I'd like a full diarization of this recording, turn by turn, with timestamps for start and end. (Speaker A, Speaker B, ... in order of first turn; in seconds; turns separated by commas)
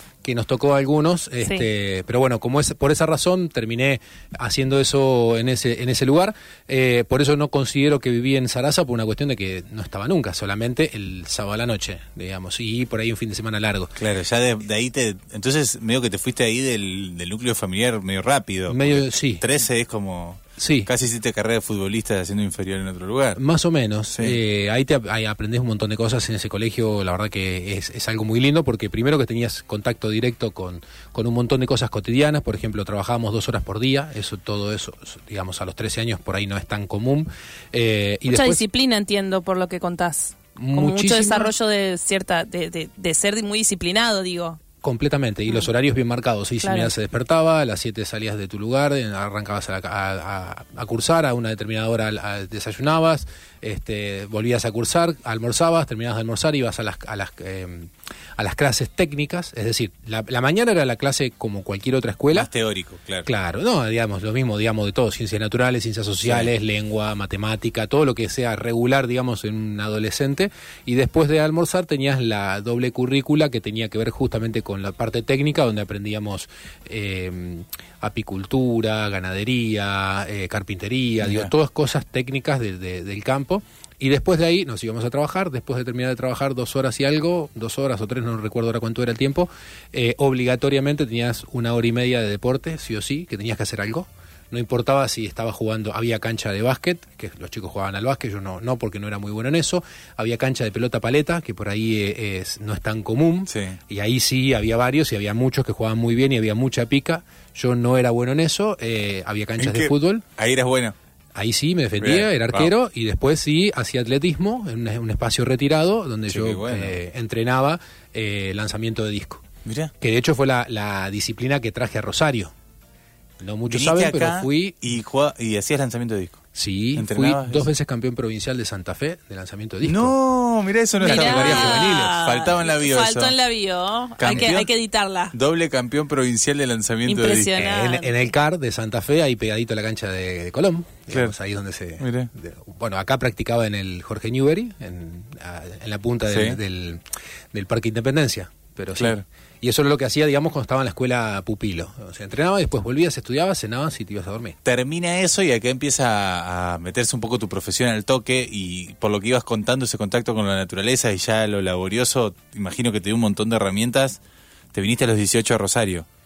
Speaker A: 0.2-13.9, Speaker B: 14.0-23.4, Speaker A: 18.7-19.4, Speaker A: 20.6-20.9, Speaker A: 23.4-38.6, Speaker C: 38.3-44.6, Speaker A: 40.5-41.5, Speaker A: 44.8-62.5, Speaker C: 46.6-46.9, Speaker B: 62.3-63.3, Speaker A: 63.2-110.2, Speaker B: 66.2-66.5, Speaker B: 81.2-81.5, Speaker B: 103.5-103.8, Speaker B: 109.6-110.9, Speaker A: 111.3-119.4, Speaker B: 112.0-112.7, Speaker B: 116.3-117.0, Speaker B: 119.6-119.9, Speaker A: 120.0-122.5, Speaker A: 123.4-124.8, Speaker B: 123.7-126.4, Speaker A: 126.5-130.1, Speaker B: 126.9-127.7, Speaker B: 129.8-133.3, Speaker A: 131.0-132.2, Speaker C: 131.0-135.3, Speaker B: 134.2-134.7, Speaker B: 135.3-137.6, Speaker C: 137.1-138.1, Speaker A: 137.5-154.6, Speaker B: 142.0-142.3, Speaker B: 146.3-146.6, Speaker B: 148.9-149.2, Speaker B: 154.6-164.2, Speaker B: 164.7-166.1